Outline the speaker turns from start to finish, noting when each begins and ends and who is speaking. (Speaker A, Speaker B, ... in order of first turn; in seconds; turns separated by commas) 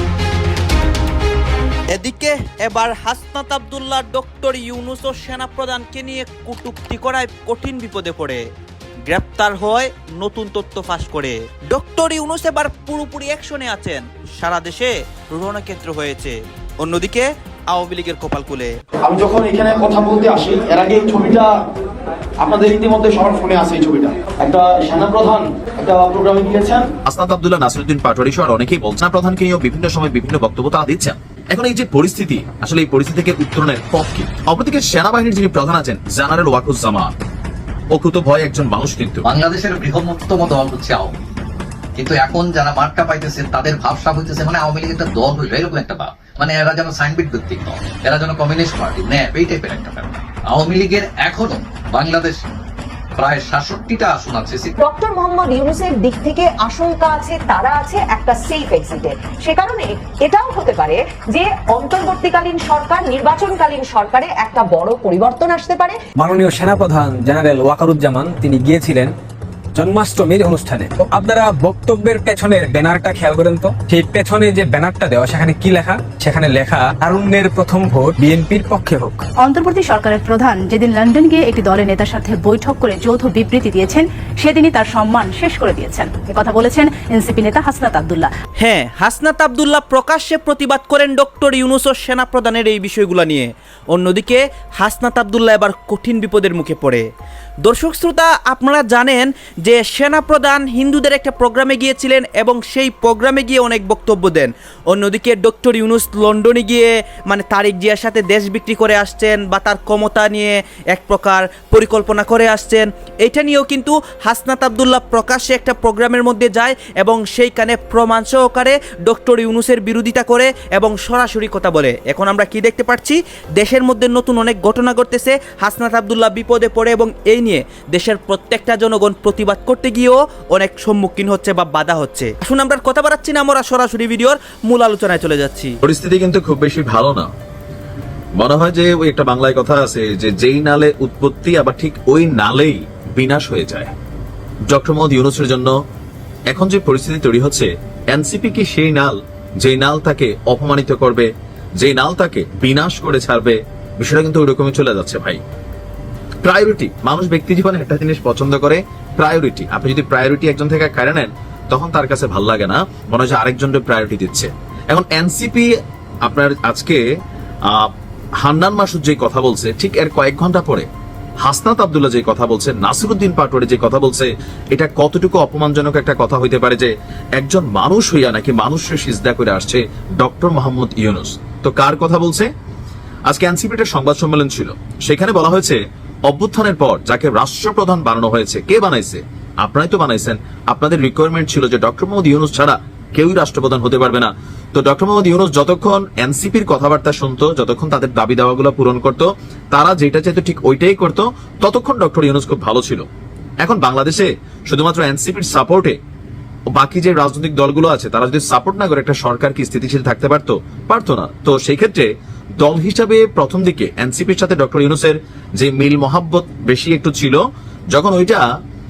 Speaker A: 1.9-8.4, Speaker A: 9.1-18.7, Speaker B: 19.0-21.5, Speaker B: 22.4-26.9, Speaker C: 27.1-37.1, Speaker C: 37.9-39.3, Speaker D: 39.2-41.2, Speaker D: 42.0-52.4, Speaker D: 53.1-54.8, Speaker E: 54.8-66.0, Speaker F: 66.2-69.1, Speaker F: 69.8-79.2, Speaker G: 79.4-88.3, Speaker A: 88.6-97.1, Speaker A: 97.7-135.7, Speaker C: 135.8-137.3, Speaker C: 138.4-143.9, Speaker C: 144.7-145.8, Speaker C: 146.5-155.4, Speaker C: 156.4-165.7, Speaker C: 166.2-167.0, Speaker C: 167.7-170.9, Speaker C: 171.4-182.5, Speaker C: 183.3-203.1, Speaker C: 203.6-206.0, Speaker C: 206.7-218.4